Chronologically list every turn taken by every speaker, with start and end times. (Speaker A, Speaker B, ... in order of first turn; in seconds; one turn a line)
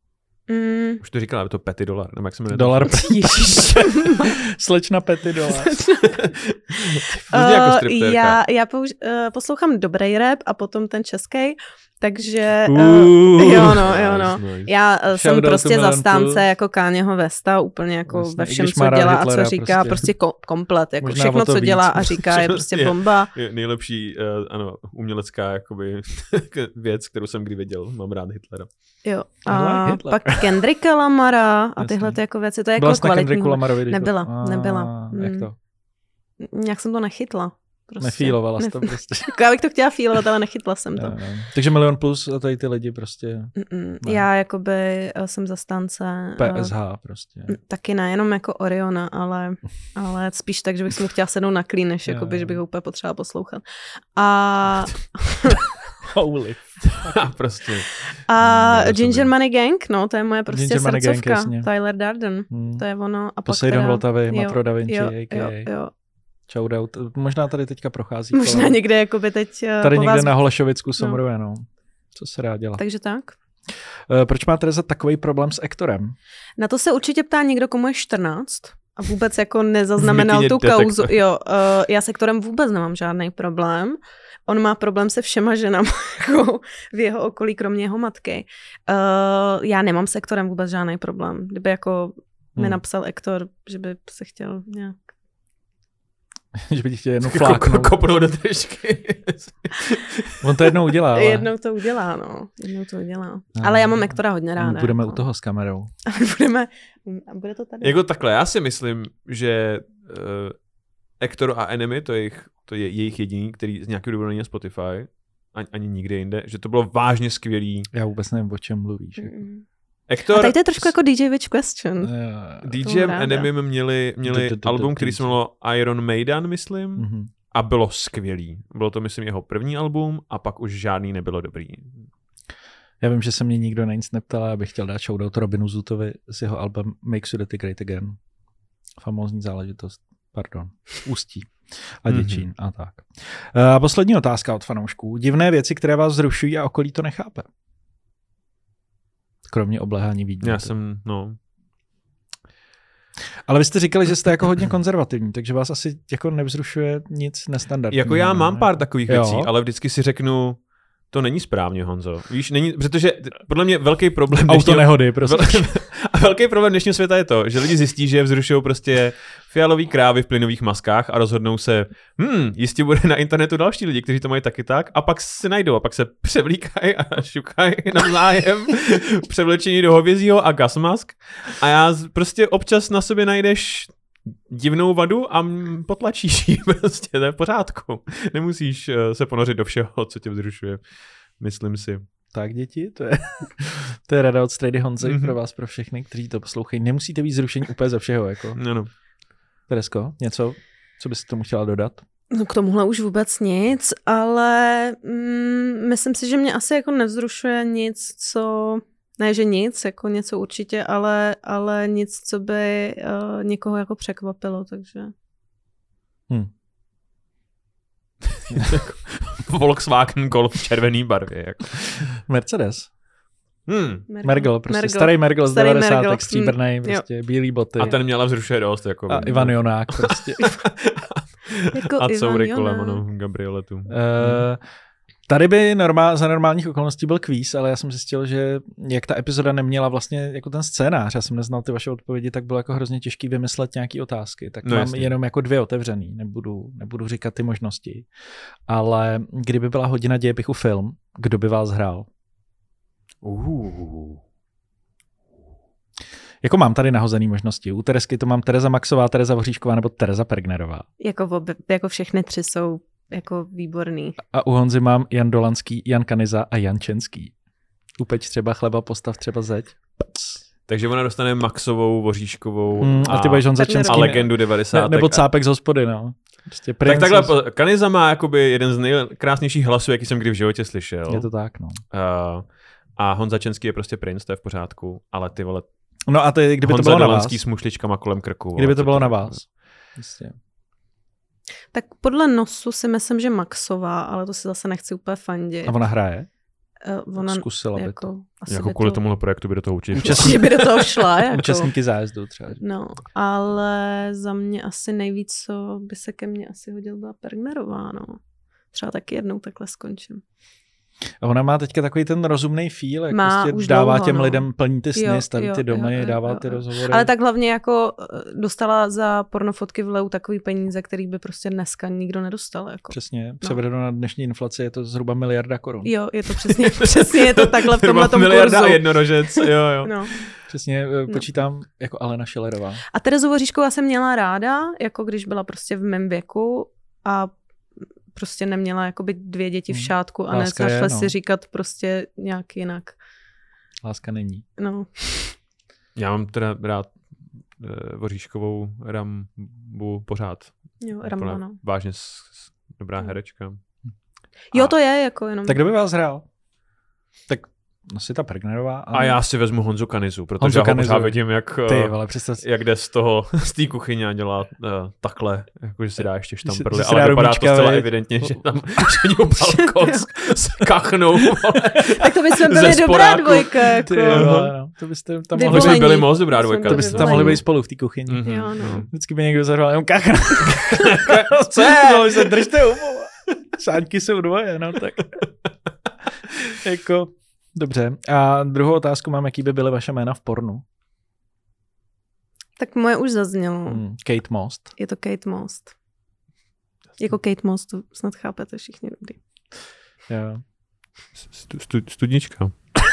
Speaker A: 0.5-1.0
Speaker B: 1.0-3.4
Speaker C: 2.5-5.8
Speaker A: 2.9-4.4
Speaker A: 5.4-6.2
Speaker B: 6.1-8.4
Speaker A: 7.0-23.3
Speaker C: 12.7-13.9
Speaker B: 13.6-14.7
Speaker C: 15.1-16.4
Speaker C: 18.1-20.1
Speaker C: 21.0-22.3
Speaker B: 22.3-28.7
Speaker A: 29.0-35.5
Speaker C: 29.5-30.6
Speaker C: 31.8-32.2
Speaker C: 32.8-35.5
Speaker A: 36.4-41.2
Speaker C: 38.0-39.3
Speaker C: 41.0-44.3
Speaker A: 43.6-46.8
Speaker C: 46.4-47.6
Speaker A: 47.5-53.6
Speaker C: 52.1-52.6
Speaker A: 54.2-55.6
Speaker C: 56.0-57.2
Speaker B: 56.8-59.3
Speaker A: 58.3-65.9
Speaker C: 60.5-61.7
Speaker C: 62.5-62.8
Speaker C: 63.5-65.7
Speaker C: 66.5-68.8
Speaker A: 68.3-70.4
Speaker C: 69.8-72.8
Speaker A: 72.8-73.3
Speaker C: 74.1-76.2
Speaker A: 76.6-95.0
Speaker B: 80.0-81.2
Speaker C: 92.6-92.8
Speaker C: 96.6-98.0
Speaker B: 97.2-100.4
Speaker C: 100.4-101.5
Speaker A: 101.1-105.2
Speaker C: 103.6-105.9
Speaker A: 106.1-108.0
Speaker B: 107.8-110.6
Speaker B: 111.2-117.9
Speaker C: 117.9-119.3
Speaker A: 119.2-119.6
Speaker B: 120.1-120.9
Speaker A: 120.3-122.2
Speaker C: 122.0-122.7
Speaker B: 122.6-132.1
Speaker A: 122.8-123.5
Speaker C: 124.2-125.3
Speaker C: 127.0-127.3
Speaker C: 133.0-138.2
Speaker C: 139.0-147.5
Speaker B: 142.1-142.4
Speaker C: 149.5-150.7
Speaker B: 150.4-151.4
Speaker C: 153.5-159.5
Speaker B: 157.9-183.9
Speaker C: 164.4-165.7
Speaker B: 184.5-190.8
Speaker B: 191.4-192.1
Speaker C: 192.3-198.6
Speaker B: 195.0-195.3
Speaker B: 198.6-198.9
Speaker C: 199.7-202.0
Speaker A: 202.3-215.1
Speaker B: 218.3-222.1
Speaker C: 222.3-222.9
Speaker B: 223.7-224.1
Speaker A: 224.1-227.0
Speaker C: 224.2-228.0
Speaker B: 227.8-234.4
Speaker C: 229.1-230.4
Speaker A: 231.7-233.0
Speaker C: 233.9-234.6
Speaker C: 235.3-248.1
Speaker B: 244.6-245.1
Speaker C: 248.7-252.1
Speaker B: 253.2-254.2
Speaker C: 256.4-260.9
Speaker A: 261.0-264.2
Speaker C: 264.3-267.3
Speaker C: 268.0-270.4
Speaker B: 270.7-275.2
Speaker C: 272.8-277.3
Speaker A: 273.5-274.3
Speaker B: 276.8-281.3
Speaker C: 281.1-281.8
Speaker B: 281.9-285.7
Speaker C: 286.1-287.4
Speaker B: 286.6-289.4
Speaker C: 288.6-290.4
Speaker A: 291.7-295.8
Speaker C: 295.6-296.3
Speaker A: 296.8-299.0
Speaker C: 297.2-298.1
Speaker B: 298.5-300.8
Speaker C: 299.9-302.6
Speaker A: 300.0-301.7
Speaker A: 302.6-308.2
Speaker A: 308.7-310.2
Speaker C: 311.2-317.1
Speaker A: 313.1-323.6
Speaker C: 322.9-325.9
Speaker A: 325.9-330.1
Speaker B: 326.6-330.3
Speaker C: 330.5-332.8
Speaker A: 332.9-337.3
Speaker A: 338.1-343.0
Speaker C: 339.7-341.1
Speaker C: 343.8-344.4
Speaker A: 344.6-345.4
Speaker B: 346.0-346.9
Speaker B: 347.6-353.6
Speaker A: 350.8-351.6
Speaker A: 354.5-355.6
Speaker C: 355.4-356.3
Speaker C: 357.3-359.2
Speaker B: 358.9-374.5
Speaker C: 360.4-362.4
Speaker C: 366.5-368.8
Speaker A: 369.8-370.1
Speaker A: 371.9-374.3
Speaker C: 373.9-378.3
Speaker A: 375.3-377.4
Speaker B: 375.5-377.5
Speaker B: 378.1-378.9
Speaker A: 378.2-378.9
Speaker C: 378.9-385.2
Speaker B: 380.5-382.4
Speaker C: 386.6-390.6
Speaker A: 392.6-393.8
Speaker C: 393.7-394.7
Speaker A: 394.8-395.7
Speaker A: 397.0-399.2
Speaker C: 400.1-400.4
Speaker B: 401.2-402.5